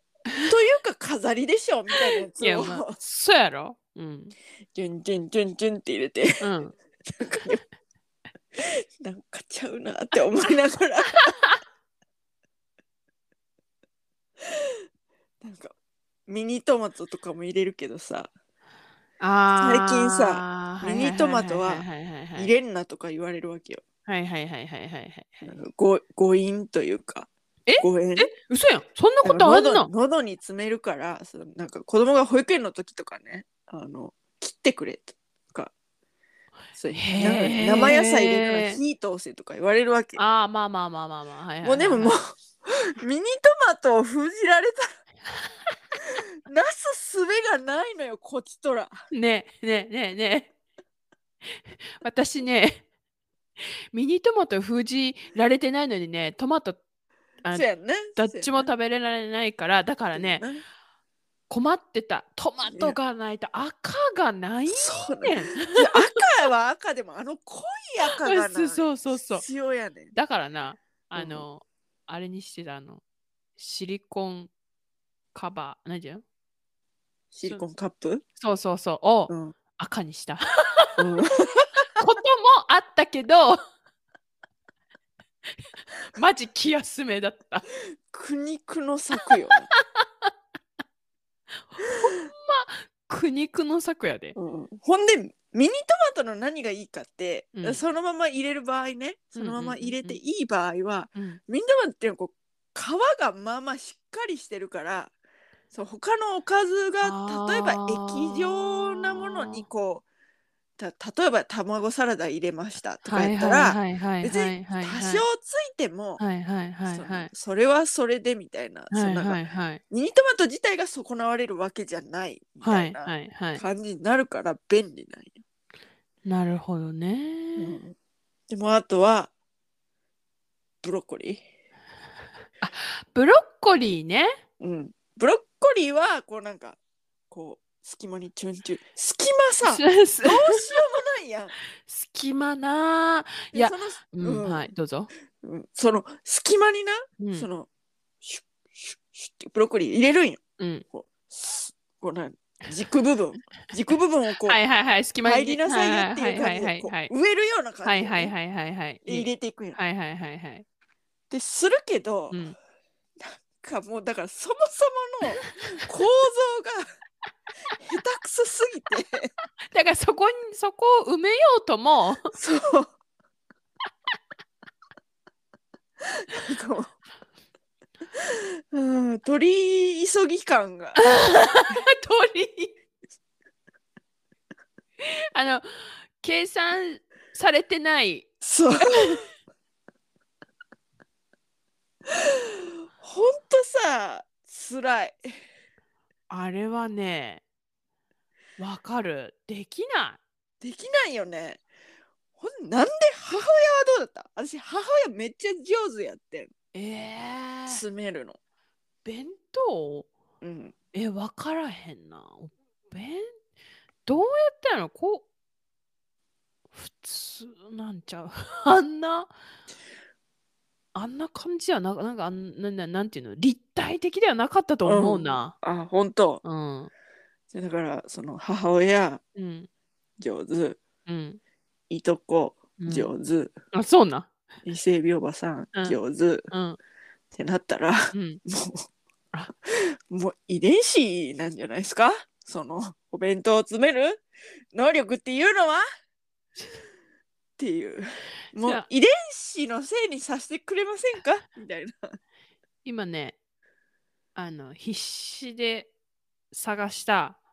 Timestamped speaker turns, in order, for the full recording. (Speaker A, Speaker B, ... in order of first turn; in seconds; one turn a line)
Speaker A: 0.4-3.0
Speaker B: 2.4-4.3
Speaker A: 4.7-6.5
Speaker B: 6.4-6.7
Speaker A: 7.1-7.6
Speaker A: 8.6-11.3
Speaker A: 15.4-15.7
Speaker A: 16.3-18.3
Speaker B: 19.2-22.5
Speaker A: 19.6-23.8
Speaker B: 24.1-25.5
Speaker A: 25.4-28.3
Speaker B: 27.6-29.9
Speaker A: 29.2-35.7
Speaker A: 36.7-40.2
Speaker B: 36.9-38.8
Speaker B: 40.1-42.1
Speaker A: 41.6-44.9
Speaker A: 46.5-49.0
Speaker B: 49.1-50.5
Speaker B: 51.5-52.9
Speaker B: 53.6-56.8
Speaker B: 57.4-60.4
Speaker A: 57.5-58.6
Speaker A: 60.1-60.6
Speaker B: 61.5-66.0
Speaker A: 62.7-63.0
Speaker A: 64.7-70.1
Speaker B: 68.1-69.4
Speaker B: 70.1-73.0
Speaker A: 71.2-71.5
Speaker B: 73.6-74.5
Speaker B: 75.3-76.2
Speaker A: 77.3-78.2
Speaker B: 78.4-81.0
Speaker A: 79.3-79.5
Speaker A: 81.0-81.9
Speaker B: 82.0-83.6
Speaker B: 86.1-87.7
Speaker A: 88.1-89.7
Speaker B: 89.7-90.3
Speaker B: 91.7-94.3
Speaker A: 94.3-105.1
Speaker B: 97.5-97.8
Speaker B: 99.3-100.2
Speaker A: 105.7-110.0
Speaker B: 107.0-109.6
Speaker A: 110.8-116.2
Speaker B: 113.0-115.2
Speaker B: 116.2-117.3
Speaker A: 116.9-125.4
Speaker B: 118.9-119.8
Speaker B: 122.6-123.6
Speaker B: 126.2-127.8
Speaker A: 127.6-127.9
Speaker A: 128.5-129.3
Speaker A: 130.8-131.4
Speaker B: 132.6-134.4
Speaker A: 134.6-136.8
Speaker A: 137.3-141.5
Speaker B: 139.6-140.6
Speaker B: 141.8-145.1
Speaker A: 143.5-144.7
Speaker A: 145.4-147.7
Speaker B: 147.2-147.5
Speaker A: 148.2-154.6
Speaker B: 150.6-150.8
Speaker B: 154.4-157.1
Speaker A: 155.2-158.3
Speaker B: 157.8-160.6
Speaker A: 159.0-159.8
Speaker A: 161.3-162.4
Speaker A: 163.2-166.9
Speaker A: 167.8-169.3
Speaker B: 169.7-172.3
Speaker A: 172.3-172.9
Speaker A: 176.1-176.9
Speaker A: 178.2-181.0
Speaker B: 181.0-182.7
Speaker B: 185.0-189.2
Speaker A: 188.4-189.2
Speaker A: 193.0-195.3
Speaker B: 196.3-197.4
Speaker B: 198.6-200.2
Speaker A: 200.6-201.6
Speaker A: 202.4-206.5
Speaker B: 206.7-207.8
Speaker A: 207.7-208.4
Speaker B: 209.0-210.1
Speaker A: 210.4-210.7
Speaker B: 210.9-213.3
Speaker B: 214.1-215.3
Speaker B: 216.7-219.3
Speaker B: 220.9-225.5
Speaker A: 224.8-226.4
Speaker B: 226.4-226.9
Speaker A: 227.5-229.2
Speaker B: 229.3-229.7
Speaker A: 230.2-230.8
Speaker B: 231.1-231.4
Speaker A: 231.9-233.5
Speaker B: 232.8-233.1
Speaker B: 233.7-234.3
Speaker A: 234.6-236.5
Speaker B: 236.5-236.8
Speaker A: 237.3-238.9
Speaker B: 238.1-238.4
Speaker A: 239.7-244.2
Speaker A: 244.7-245.8
Speaker B: 246.6-246.8
Speaker A: 247.6-252.2
Speaker B: 248.6-248.8
Speaker B: 252.8-253.3
Speaker B: 254.3-255.9
Speaker B: 256.5-257.4